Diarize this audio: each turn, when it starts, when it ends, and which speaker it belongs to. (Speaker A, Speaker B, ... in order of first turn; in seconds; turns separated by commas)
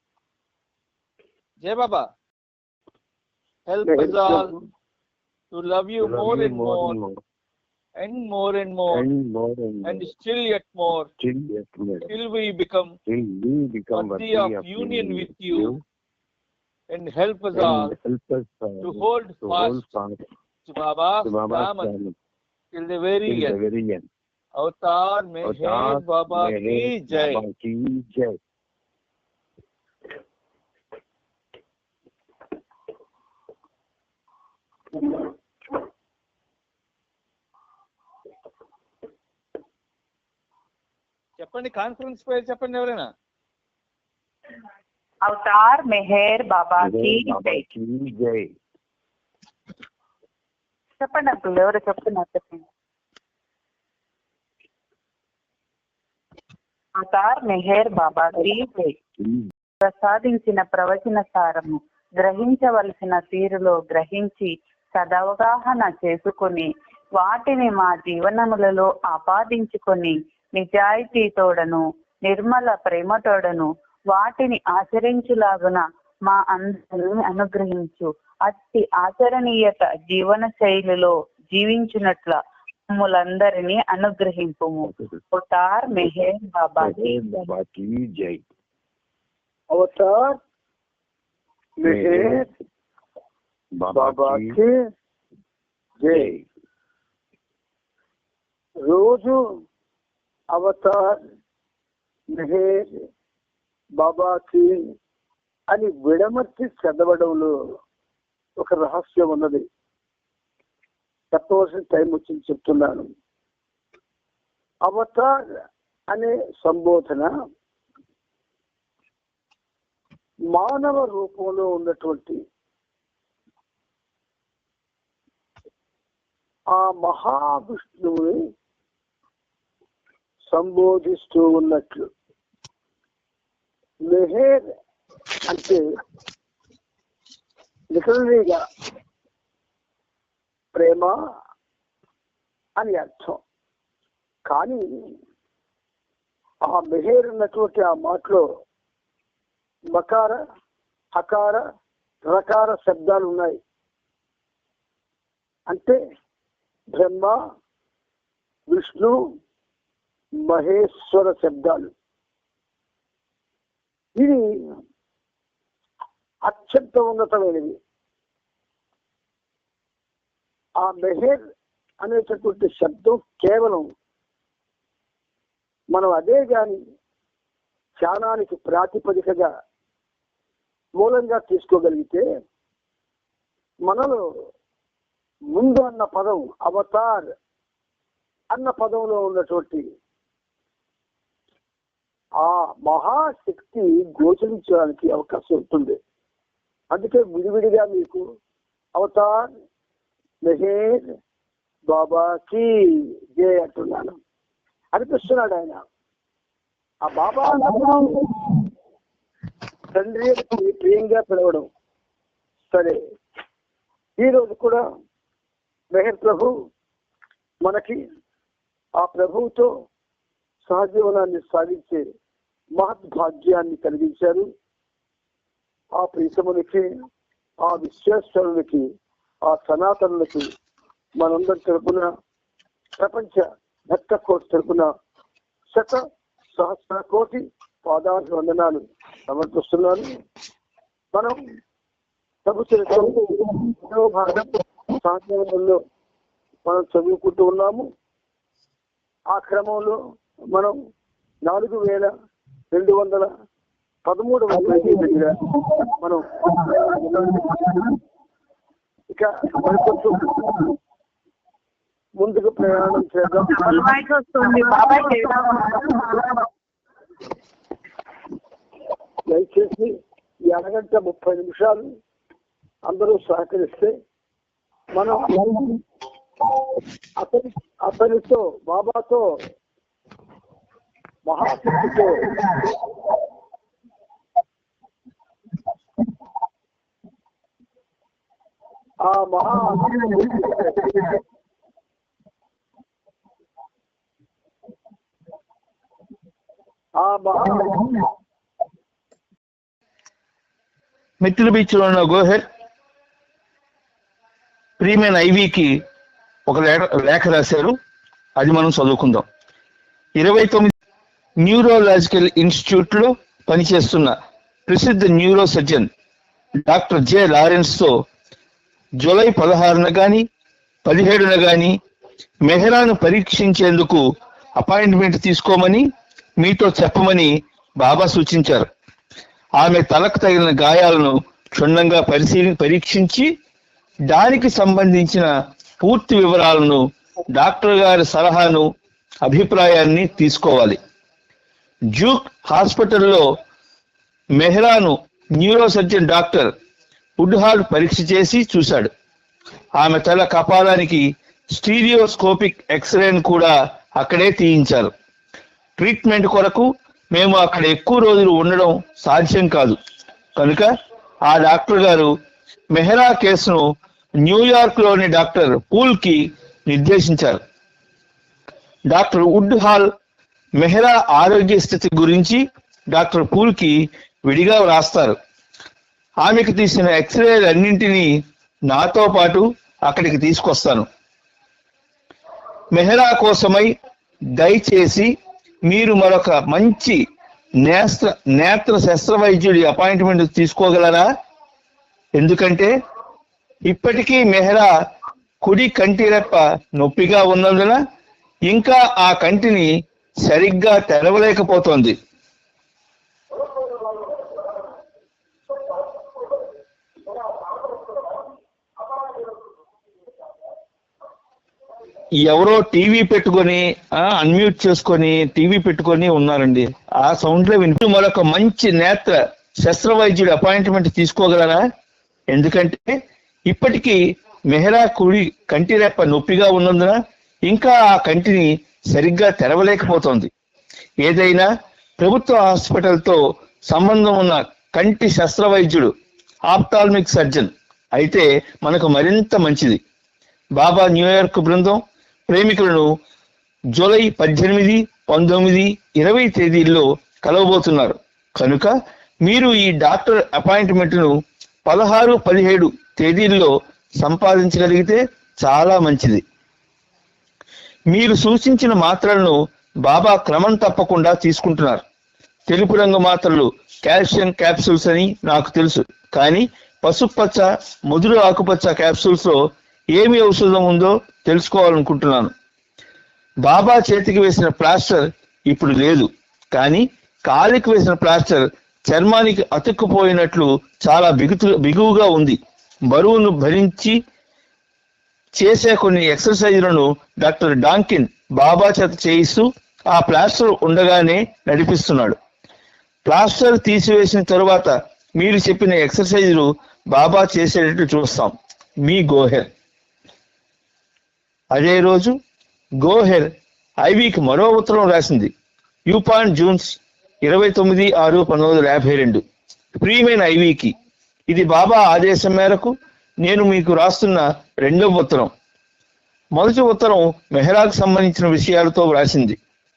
Speaker A: 1.6-2.1, Speaker A: 3.7-4.5, Speaker B: 3.8-4.6, Speaker A: 5.5-7.0, Speaker C: 6.0-7.2, Speaker A: 8.0-9.0, Speaker C: 8.9-10.1, Speaker A: 9.8-11.1, Speaker C: 11.2-12.1, Speaker A: 12.1-12.9, Speaker C: 13.1-15.8, Speaker A: 13.9-15.7, Speaker A: 16.9-17.9, Speaker C: 17.5-20.2, Speaker A: 18.8-19.8, Speaker A: 20.7-21.9, Speaker C: 21.2-22.1, Speaker A: 22.7-23.6, Speaker C: 23.3-24.1, Speaker A: 24.6-27.4, Speaker C: 25.4-28.4, Speaker A: 41.4-43.1, Speaker D: 45.2-47.6, Speaker C: 46.8-48.5, Speaker D: 51.0-52.6, Speaker D: 57.0-59.0, Speaker D: 59.8-87.1, Speaker C: 84.9-85.1, Speaker C: 86.8-88.4, Speaker B: 89.7-90.4, Speaker B: 91.8-92.5, Speaker C: 91.9-92.5, Speaker C: 93.8-94.6, Speaker B: 93.9-94.8, Speaker B: 96.0-96.3, Speaker C: 96.1-96.5, Speaker B: 98.8-99.4, Speaker B: 100.5-101.2, Speaker B: 102.3-103.0, Speaker B: 104.0-104.8, Speaker B: 105.7-107.5, Speaker B: 108.6-109.6, Speaker B: 111.3-113.1, Speaker B: 114.8-115.4, Speaker B: 116.1-117.3, Speaker B: 120.5-122.4, Speaker B: 126.7-128.4, Speaker B: 130.5-132.1, Speaker B: 134.1-134.6, Speaker B: 135.4-135.8, Speaker B: 137.9-138.6, Speaker B: 140.7-141.2, Speaker B: 142.8-143.4, Speaker B: 144.5-145.1, Speaker B: 146.6-148.4, Speaker B: 149.9-150.4, Speaker B: 151.1-151.6, Speaker B: 152.2-153.6, Speaker B: 155.7-156.0, Speaker B: 156.9-157.3, Speaker B: 158.7-159.2, Speaker B: 160.4-161.9, Speaker B: 164.2-164.4, Speaker B: 166.4-167.8, Speaker B: 170.8-171.4, Speaker B: 172.0-173.9, Speaker B: 175.9-176.8, Speaker B: 178.0-179.5, Speaker B: 180.9-182.2, Speaker B: 183.8-184.2, Speaker B: 185.5-187.3, Speaker B: 188.5-189.8, Speaker B: 192.4-196.0, Speaker B: 196.9-198.2, Speaker B: 198.9-199.5, Speaker B: 200.4-201.0, Speaker B: 201.9-204.2, Speaker B: 204.9-205.8, Speaker B: 207.0-208.3, Speaker B: 209.9-211.7, Speaker B: 212.7-213.0, Speaker B: 214.2-214.8, Speaker B: 215.9-216.5, Speaker B: 217.6-218.0, Speaker B: 219.0-219.7, Speaker B: 220.7-222.0, Speaker B: 222.8-224.4, Speaker B: 225.9-226.9, Speaker B: 227.6-228.8, Speaker B: 229.4-230.5, Speaker B: 231.2-232.1, Speaker B: 233.0-234.9, Speaker B: 235.7-236.0, Speaker B: 236.5-240.1, Speaker B: 242.4-244.5, Speaker B: 245.0-245.8, Speaker B: 246.6-247.8, Speaker B: 249.3-250.0, Speaker B: 251.4-252.1, Speaker B: 252.7-253.3, Speaker B: 254.1-257.6, Speaker B: 259.1-260.7, Speaker B: 262.2-263.9, Speaker D: 263.8-265.8, Speaker B: 269.3-271.8, Speaker B: 272.9-273.9, Speaker B: 274.9-275.8, Speaker B: 277.2-279.2, Speaker B: 281.2-282.5, Speaker B: 289.0-291.1, Speaker B: 297.0-298.0, Speaker A: 301.2-302.4, Speaker A: 304.8-305.8, Speaker A: 306.5-307.8, Speaker A: 308.4-309.2, Speaker A: 310.1-310.7, Speaker A: 311.4-314.1, Speaker A: 314.7-315.9, Speaker A: 316.6-317.9, Speaker A: 319.0-320.2, Speaker A: 320.8-321.8, Speaker A: 322.4-324.0, Speaker A: 324.6-325.9, Speaker A: 326.4-328.6, Speaker A: 329.6-333.3, Speaker A: 334.1-335.3, Speaker A: 335.8-336.8, Speaker A: 337.3-338.6, Speaker A: 339.2-340.8, Speaker A: 341.9-343.2, Speaker A: 344.4-346.5, Speaker A: 347.2-348.9, Speaker A: 349.8-354.9, Speaker A: 355.8-359.8, Speaker A: 360.4-360.7, Speaker A: 361.2-362.1, Speaker A: 362.7-363.6, Speaker A: 364.2-367.4, Speaker A: 368.9-369.9, Speaker A: 370.6-375.1, Speaker A: 376.2-378.1, Speaker A: 378.7-380.9, Speaker A: 382.7-383.7, Speaker A: 384.3-385.1, Speaker A: 385.6-387.0, Speaker A: 387.6-391.1, Speaker A: 392.1-392.7, Speaker A: 393.6-394.7, Speaker A: 395.4-397.8, Speaker A: 398.4-399.7, Speaker A: 400.2-401.9, Speaker A: 412.2-421.6, Speaker A: 422.3-422.8, Speaker A: 423.5-430.3, Speaker A: 431.0-431.5, Speaker A: 432.0-435.9, Speaker A: 436.5-439.8, Speaker A: 440.6-442.9, Speaker A: 443.7-448.7, Speaker A: 449.2-451.1, Speaker A: 451.6-456.2, Speaker A: 457.9-461.8, Speaker A: 462.5-469.4, Speaker A: 469.9-472.3, Speaker A: 473.4-482.4, Speaker A: 482.9-483.9, Speaker A: 485.3-492.1, Speaker A: 493.0-499.5, Speaker A: 501.5-502.1, Speaker A: 502.8-503.3, Speaker A: 503.8-505.3, Speaker A: 505.9-509.2, Speaker A: 509.8-510.7, Speaker A: 511.3-515.3, Speaker A: 516.3-519.4